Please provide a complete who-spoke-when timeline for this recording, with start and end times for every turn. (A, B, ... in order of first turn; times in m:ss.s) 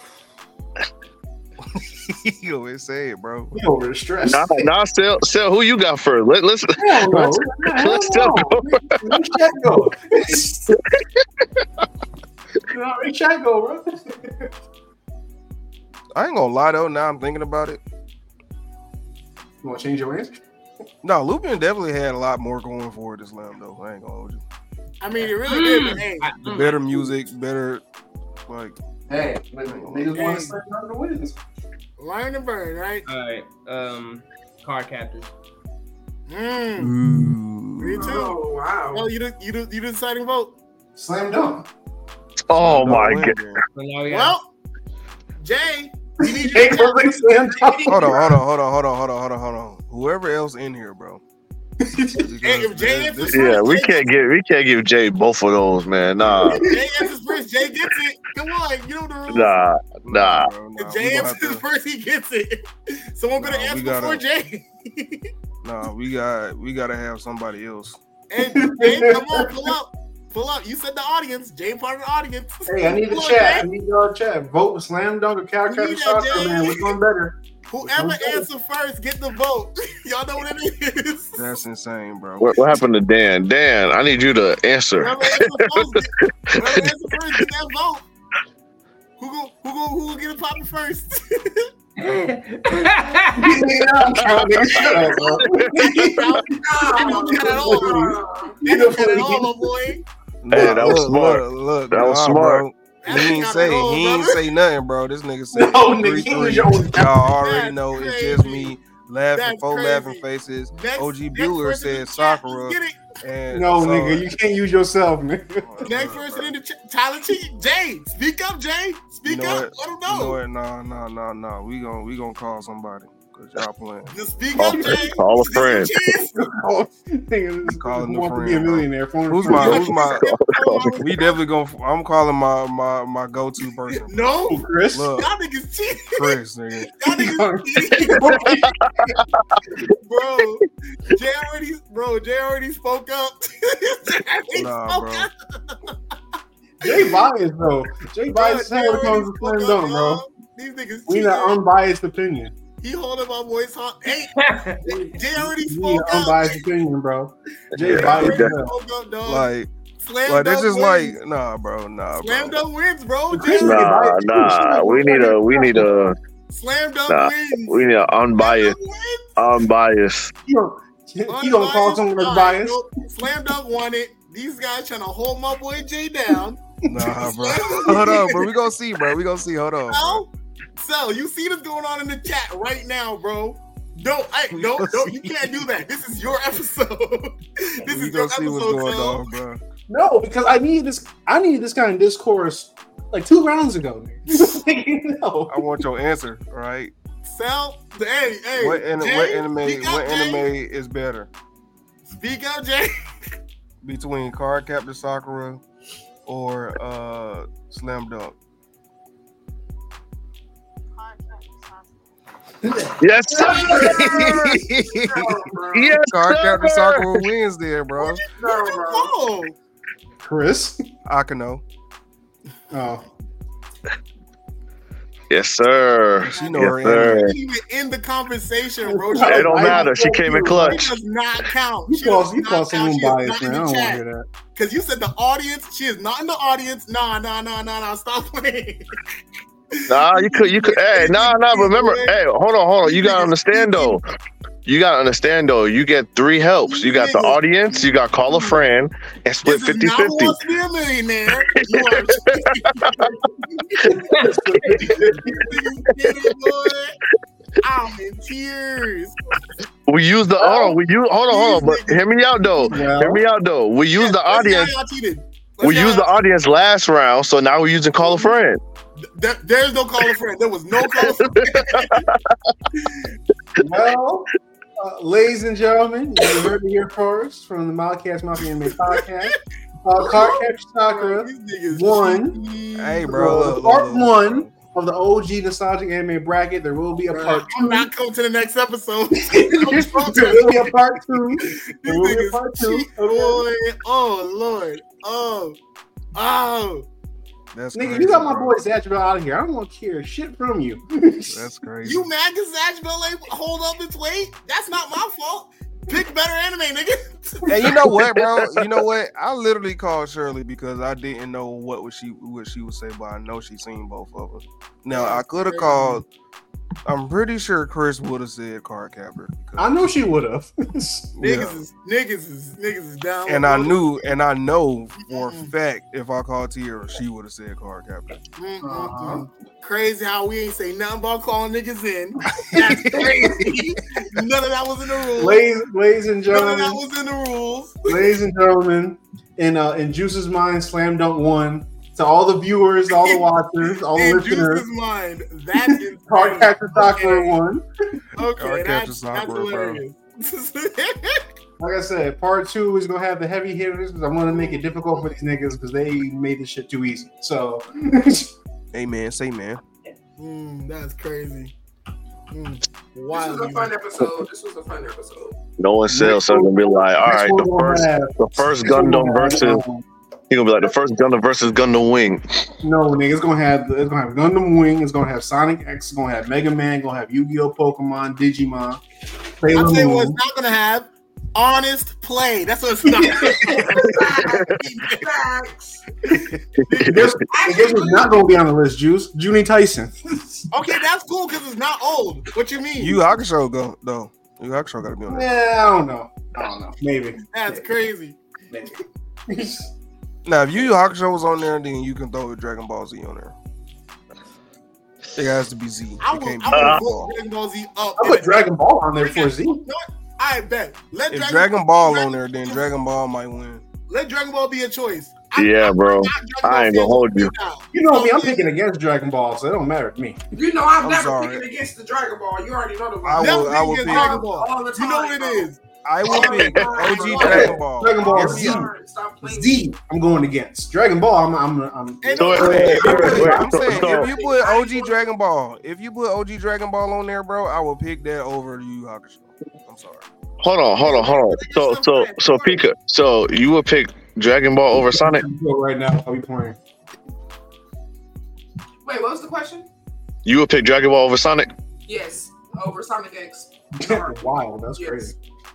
0:01.7-0:03.6 A
0:03.5-0:04.7 B
0:04.2-0:09.0 C
0:06.8-0:10.7 B
0:10.7-0:11.0 C
0:12.7-0:14.5 B
0:16.1-0:17.8 A
0:19.6-0:20.4 B
0:21.0-0:24.4 A
0:25.0-0:26.3 D
0:25.4-0:26.8 E
0:26.4-0:27.8 A
0:28.5-0:28.8 A
0:29.1-0:31.4 B
0:29.7-0:30.1 A
0:30.1-0:30.6 D
0:32.0-0:33.0 D
0:33.0-0:35.3 E
0:36.3-0:36.9 D
0:36.8-0:38.2 A
0:37.8-0:40.5 D
0:38.0-0:39.1 F
0:40.9-0:41.7 B
0:42.5-0:43.4 C
0:42.6-0:43.6 A
0:43.7-0:44.4 E
0:44.1-0:44.5 D
0:45.4-0:48.3 D
0:46.2-0:48.3 B
0:47.9-0:51.2 A
0:51.8-0:52.3 B
0:52.1-0:53.6 A
0:52.4-0:54.1 D
0:53.3-0:56.6 C
0:56.2-0:56.6 A
0:56.4-0:57.1 B
0:56.5-0:59.6 D
0:59.3-1:00.5 C
1:00.0-1:01.6 A
1:00.8-1:05.3 D
1:03.4-1:04.2 A
1:05.6-1:08.0 A
1:08.3-1:13.7 D
1:08.4-1:09.7 B
1:12.7-1:18.5 B
1:15.7-1:16.9 D
1:17.7-1:21.5 D
1:21.4-1:22.8 A
1:22.4-1:26.9 C
1:25.0-1:28.0 D
1:29.2-1:31.7 D
1:32.0-1:33.6 E
1:33.3-1:39.7 B
1:34.2-1:34.8 C
1:35.1-1:38.1 D
1:36.6-1:38.6 F
1:38.6-1:40.0 D
1:40.4-1:54.3 A
1:40.5-1:42.6 C
1:40.5-1:41.0 B
1:43.0-1:44.4 D
1:45.5-1:47.2 B
1:47.3-1:48.7 D
1:49.3-1:53.0 D
1:53.5-1:55.9 B
1:55.6-1:56.5 A
1:55.8-2:00.4 D
1:59.2-2:04.1 A
2:04.1-2:06.3 D
2:04.6-2:06.0 C
2:04.6-2:05.0 B
2:06.3-2:10.0 B
2:07.6-2:10.3 A
2:09.5-2:11.4 D
2:10.2-2:11.0 C
2:11.0-2:14.3 A
2:13.9-2:16.4 D
2:14.5-2:15.1 B
2:14.9-2:15.3 A
2:16.1-2:16.9 A
2:16.9-2:18.5 D
2:17.1-2:19.2 B
2:18.8-2:19.6 C
2:20.0-2:26.0 D
2:24.5-2:25.3 A
2:26.8-2:30.2 B
2:26.8-2:27.2 D
2:28.3-2:31.6 D
2:31.1-2:32.5 B
2:32.8-2:36.6 D
2:34.3-2:35.1 E
2:35.3-2:38.7 B
2:37.8-2:38.5 C
2:37.8-2:41.2 D
2:39.2-2:39.7 A
2:40.2-2:42.6 A
2:42.2-2:43.9 D
2:43.3-2:45.9 B
2:43.6-2:46.2 C
2:46.5-2:47.8 D
2:47.1-2:48.8 C
2:48.4-2:49.4 D
2:49.4-2:50.3 C
2:50.4-2:52.8 B
2:51.3-2:56.6 D
2:56.8-2:58.0 B
2:56.8-3:00.2 A
2:57.2-2:58.5 D
2:59.9-3:09.3 D
3:04.5-3:05.6 A
3:07.8-3:09.6 A
3:09.9-3:15.6 B
3:15.5-3:16.9 A
3:17.2-3:20.4 D
3:18.6-3:21.3 A
3:22.0-3:22.9 D
3:23.8-3:25.6 A
3:26.2-3:28.3 A
3:31.0-3:31.8 F
3:33.0-3:34.2 C
3:33.3-3:36.0 F
3:33.4-3:33.9 B
3:34.1-3:35.2 A
3:35.7-3:37.2 C
3:36.1-3:38.2 A
3:38.0-3:39.6 D
3:38.3-3:39.1 F
3:40.2-3:40.8 B
3:41.0-3:41.6 A
3:42.7-3:43.0 B
3:45.3-3:47.3 C
3:46.2-3:47.3 A
3:46.3-3:54.0 D
3:48.8-3:50.9 B
3:49.2-3:50.9 C
3:51.9-3:54.2 B
3:54.5-3:58.9 D
3:59.7-4:02.2 D
3:59.9-4:04.0 C
4:02.8-4:04.0 D
4:04.6-4:10.4 C
4:06.7-4:08.6 D
4:09.4-4:14.0 D
4:11.5-4:13.1 C
4:13.8-4:15.7 B
4:14.0-4:14.7 E
4:14.8-4:17.0 D
4:16.0-4:16.3 C
4:17.6-4:19.2 D
4:19.9-4:24.7 C
4:20.4-4:20.7 D
4:21.3-4:22.8 D
4:22.6-4:23.2 B
4:23.9-4:26.1 D
4:25.6-4:28.6 C
4:28.0-4:28.3 D
4:29.0-4:32.0 D
4:30.8-4:32.5 C
4:32.7-4:33.1 D
4:33.6-4:42.4 B
4:40.0-4:43.5 D
4:42.8-4:44.5 A
4:43.1-4:47.9 B
4:47.1-4:50.7 D
4:49.3-4:53.4 B
4:51.4-4:55.6 D
4:56.1-4:56.8 D
4:57.5-4:58.6 A
4:57.7-5:01.5 B
5:01.3-5:02.1 A
5:01.8-5:07.7 D
5:07.5-5:16.0 A
5:08.1-5:08.7 C
5:14.9-5:16.0 D
5:16.8-5:19.9 A
5:19.6-5:21.1 B
5:21.2-5:21.6 A
5:21.2-5:23.8 D
5:23.2-5:28.2 A
5:25.0-5:25.5 D
5:28.4-5:35.4 D
5:28.6-5:29.3 B
5:32.4-5:33.6 B
5:35.2-5:36.8 B
5:36.3-5:38.0 D
5:37.8-5:44.6 B
5:42.9-5:43.2 D
5:43.9-5:47.4 D
5:45.5-5:47.6 B
5:48.2-5:51.2 D
5:48.4-5:49.8 A
5:51.6-5:58.3 B
5:54.3-5:55.1 D
5:58.7-5:59.6 A
6:00.2-6:01.5 D
6:02.3-6:03.8 D
6:03.1-6:05.4 F
6:05.6-6:09.6 C
6:05.9-6:09.8 B
6:10.3-6:12.2 C
6:12.6-6:18.8 B
6:19.4-6:20.2 B
6:19.5-6:25.0 D
6:22.8-6:23.8 B
6:23.5-6:25.8 F
6:26.6-6:27.1 C
6:26.7-6:27.1 D
6:26.9-6:30.5 B
6:27.3-6:28.2 F
6:30.5-6:33.0 D
6:32.8-6:35.3 A
6:35.1-6:37.7 B
6:37.3-6:38.2 D
6:38.5-6:39.7 B
6:40.2-6:43.3 A
6:45.1-6:47.1 A
6:46.0-6:48.4 D
6:46.5-6:46.8 C
6:48.0-6:49.6 B
6:49.0-6:52.7 D
6:51.1-6:53.6 A
6:53.9-6:58.5 D
6:55.3-6:57.3 C
6:57.7-7:00.2 B
7:00.3-7:05.5 F
7:00.8-7:01.4 A
7:03.0-7:04.2 A
7:03.2-7:07.5 D
7:05.8-7:08.7 A
7:06.0-7:09.6 F
7:07.2-7:13.6 B
7:12.0-7:13.1 D
7:12.2-7:14.1 C
7:12.4-7:20.0 A
7:12.5-7:15.0 F
7:20.4-7:25.2 C
7:20.8-7:22.6 D
7:24.9-7:26.6 B
7:28.8-7:29.7 F
7:30.2-7:31.5 C
7:31.9-7:35.1 F
7:33.8-7:35.1 B